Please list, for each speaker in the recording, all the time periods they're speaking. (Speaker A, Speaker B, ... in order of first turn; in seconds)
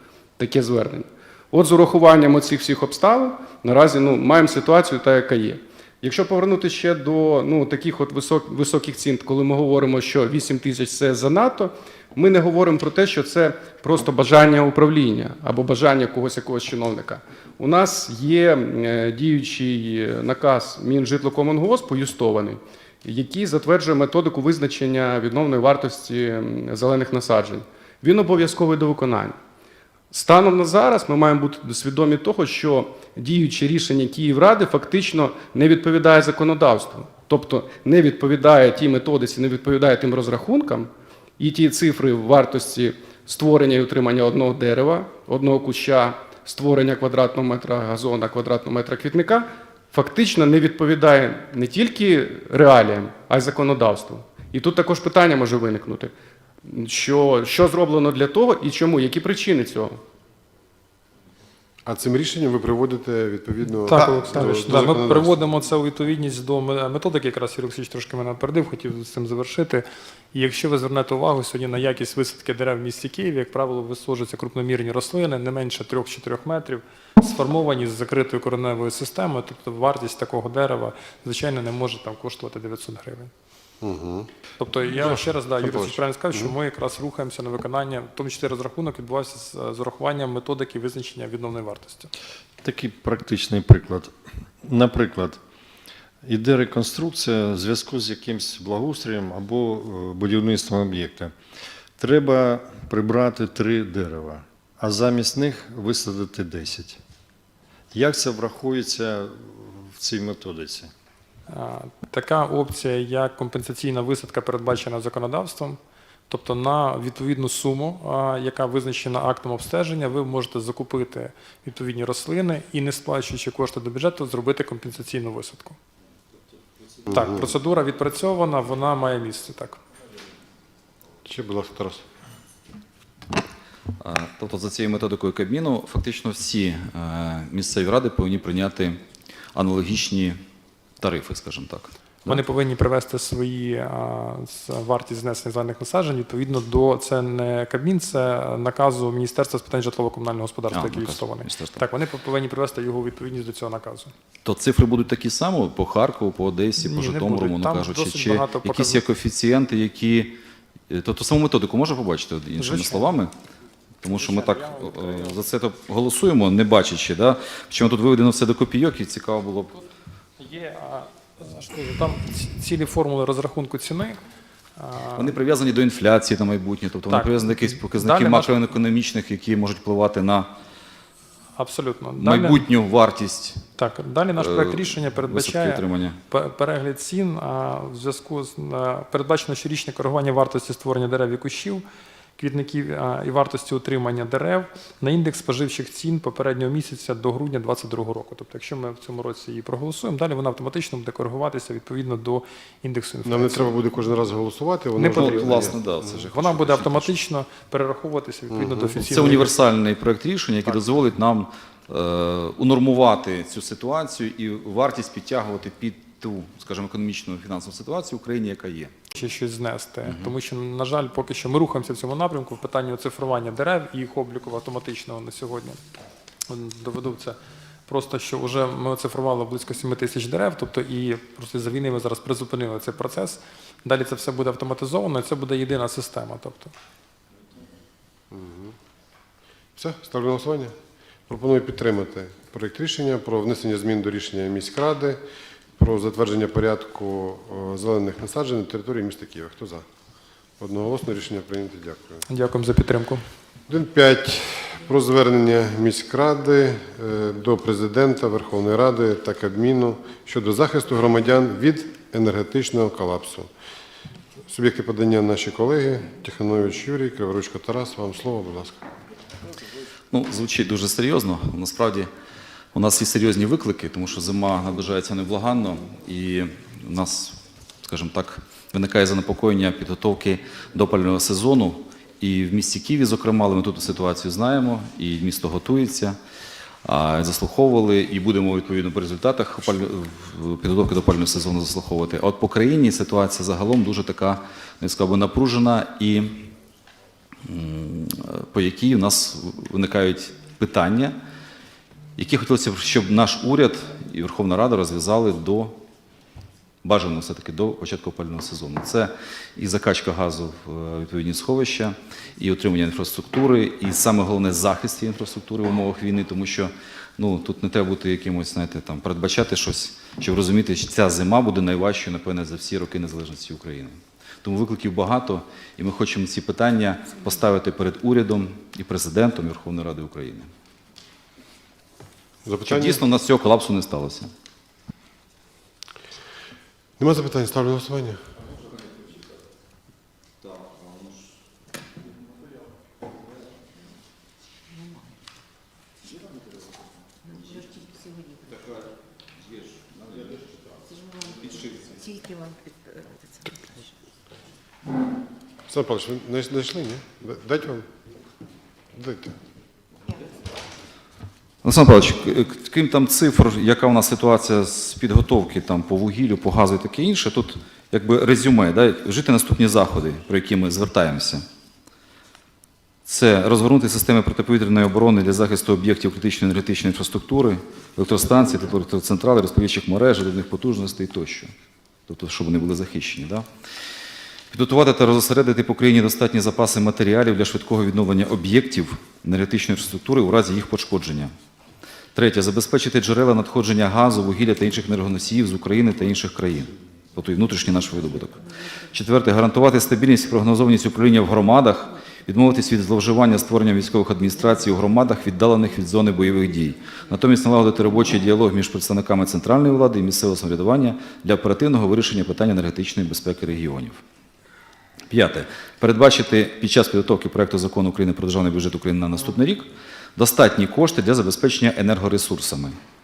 Speaker A: 0.4-29.4, 30.1-56.1, 56.6-60.0
Speaker B: 61.9-65.4, 83.8-84.3, 85.0-86.5, 127.1-127.5, 131.2-132.1, 203.2-206.2, 208.5-209.0, 238.3-238.8, 239.8-240.8, 241.3-245.2, 245.8-249.9, 250.6-252.2, 253.7-263.5, 264.5-268.9, 332.5-333.0, 337.0-338.2, 355.7-357.9, 358.9-359.4
Speaker C: 63.9-83.3, 84.6-92.1, 111.5-125.8, 127.1-129.8, 142.3-154.1, 156.8-159.0, 162.6-163.1, 164.1-165.4, 170.4-174.2, 174.8-175.3, 177.1-178.6, 181.6-182.6, 183.8-191.8, 192.4-203.7, 205.0-209.5, 219.2-225.8, 226.5-236.7, 252.3-253.2
Speaker D: 92.6-95.4, 96.2-101.3, 102.0-107.0, 107.9-110.9
Speaker E: 134.0-139.0, 139.5-140.4, 141.0-142.4, 150.7-151.8, 154.4-160.4, 160.9-163.3, 164.0-169.7, 175.2-180.6, 182.2-183.6, 184.4-186.2, 205.1-207.2, 209.0-218.9, 220.1-220.3, 270.1-272.1, 272.7-286.2, 286.8-296.5, 297.4-301.2, 302.2-305.8, 306.8-330.5, 332.6-334.3, 361.6-371.4, 373.1-381.5, 382.1-383.5, 384.5-391.3, 392.1-414.0, 415.1-422.8